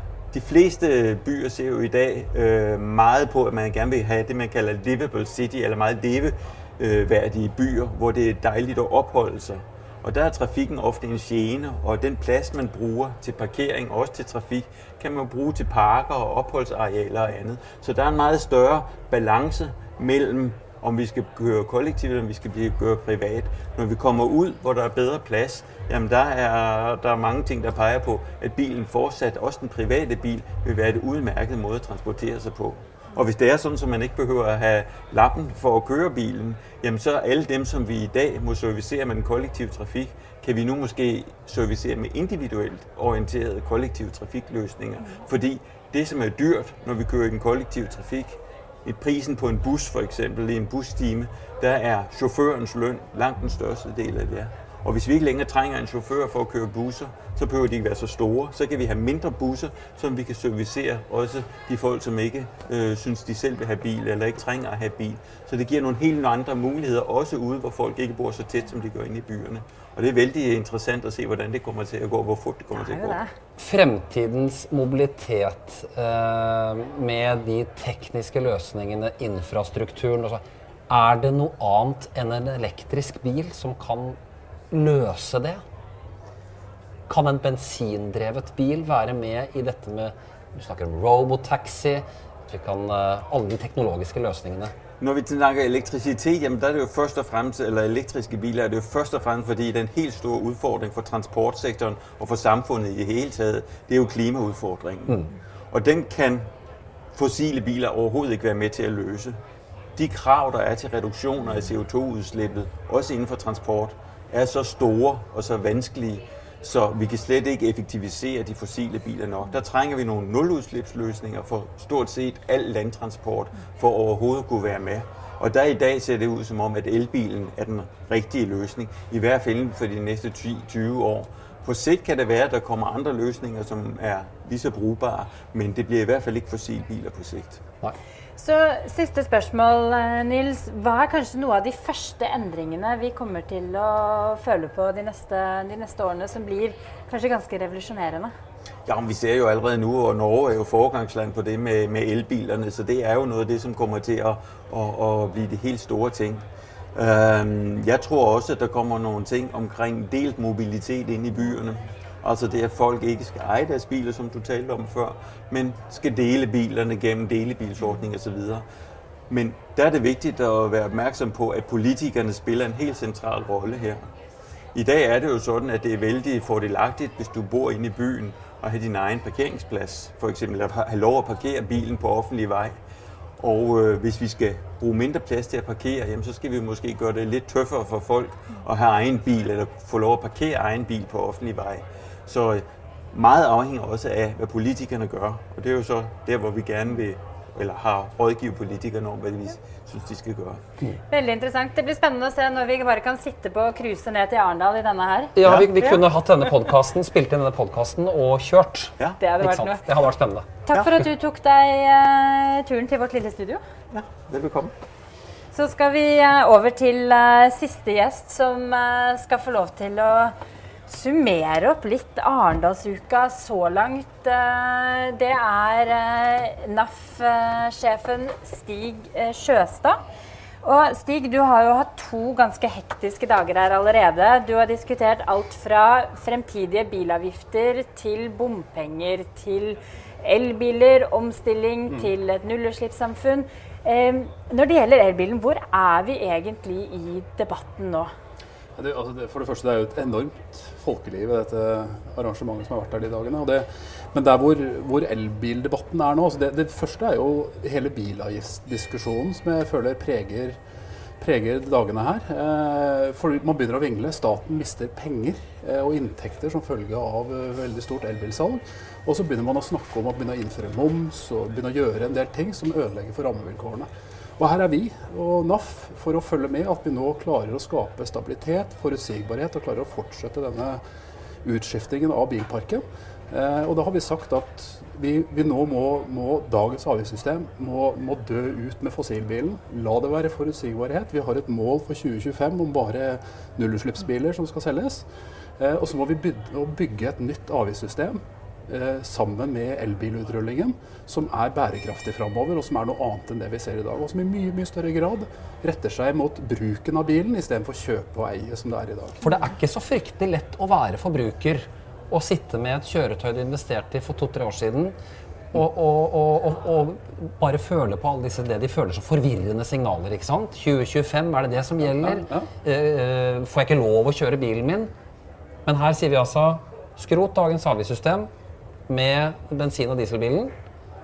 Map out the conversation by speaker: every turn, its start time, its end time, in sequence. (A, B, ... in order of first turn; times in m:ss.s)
0:00.3-1:13.2 A
1:12.8-1:13.3 B
1:13.6-1:24.2 C
1:24.7-1:25.6 C
1:27.1-1:34.7 C
1:35.0-1:46.5 A
1:47.1-1:49.4 A
1:50.0-2:17.6 A
2:18.4-2:28.3 B
2:28.9-2:36.4 A
2:36.9-2:48.6 A
2:49.3-2:54.0 A
2:54.7-3:02.8 A
3:03.4-3:20.6 A
3:21.1-3:25.3 B
3:25.4-3:30.6 C
3:25.4-3:26.0 A
3:29.2-3:29.8 B
3:30.6-3:33.6 B
3:33.9-3:34.7 A
3:35.5-3:40.3 B
3:40.9-3:50.0 B
3:50.6-4:08.1 B
4:08.8-4:20.6 D
4:21.2-4:40.8 D
4:41.4-4:55.0 D
4:55.6-5:09.2 D
5:09.2-5:14.9 C
5:15.5-5:24.9 C
5:22.0-5:22.5 D
5:25.6-5:28.3 C
5:28.9-5:30.5 C